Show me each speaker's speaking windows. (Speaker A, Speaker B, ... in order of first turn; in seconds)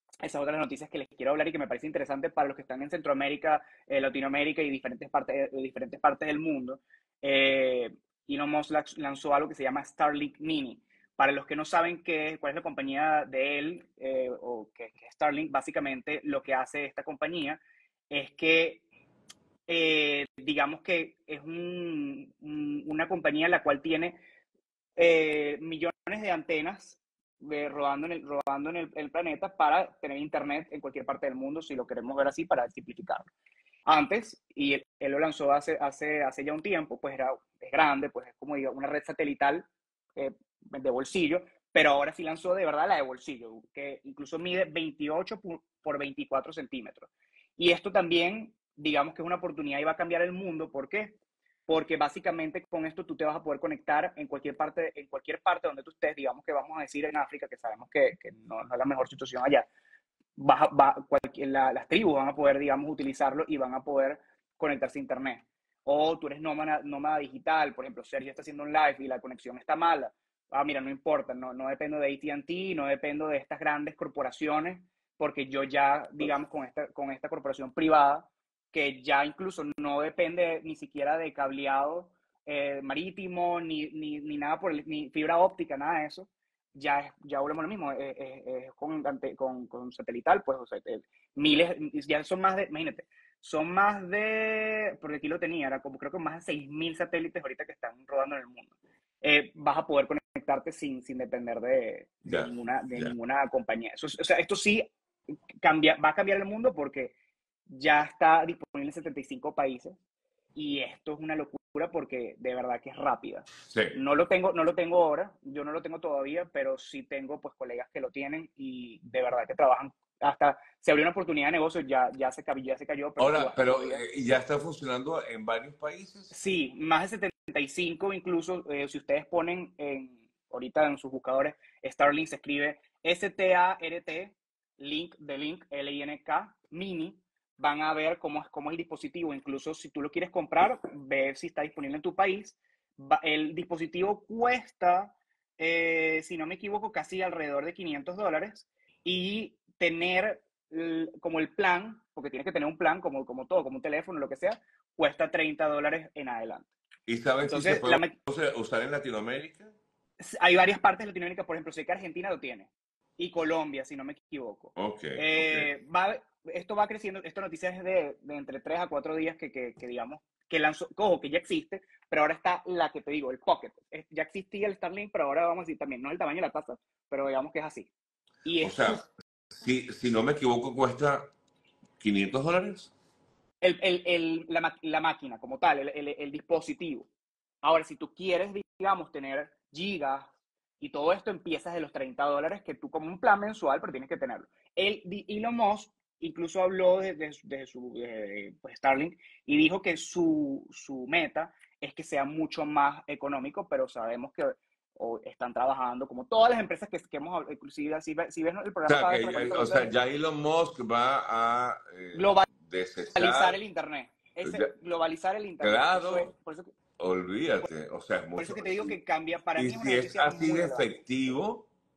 Speaker A: 0.2-18.9, 19.7-24.2, 25.0-33.3, 33.9-51.2, 51.7-59.7, 60.4-104.9, 105.6-107.1, 107.7-110.0, 110.5-124.0, 126.3-156.7, 157.4-158.2, 160.2-177.9, 178.4-179.0, 183.6-187.1, 187.6-209.9, 212.1-212.5, 213.2-216.7, 218.4-220.9
Speaker B: 102.2-103.1, 113.7-114.0, 123.2-126.3, 157.1-159.8, 164.8-165.7, 178.6-181.3, 182.0-182.9, 208.9-213.6, 214.4-214.7, 215.6-216.3, 217.0-218.9, 219.6-221.7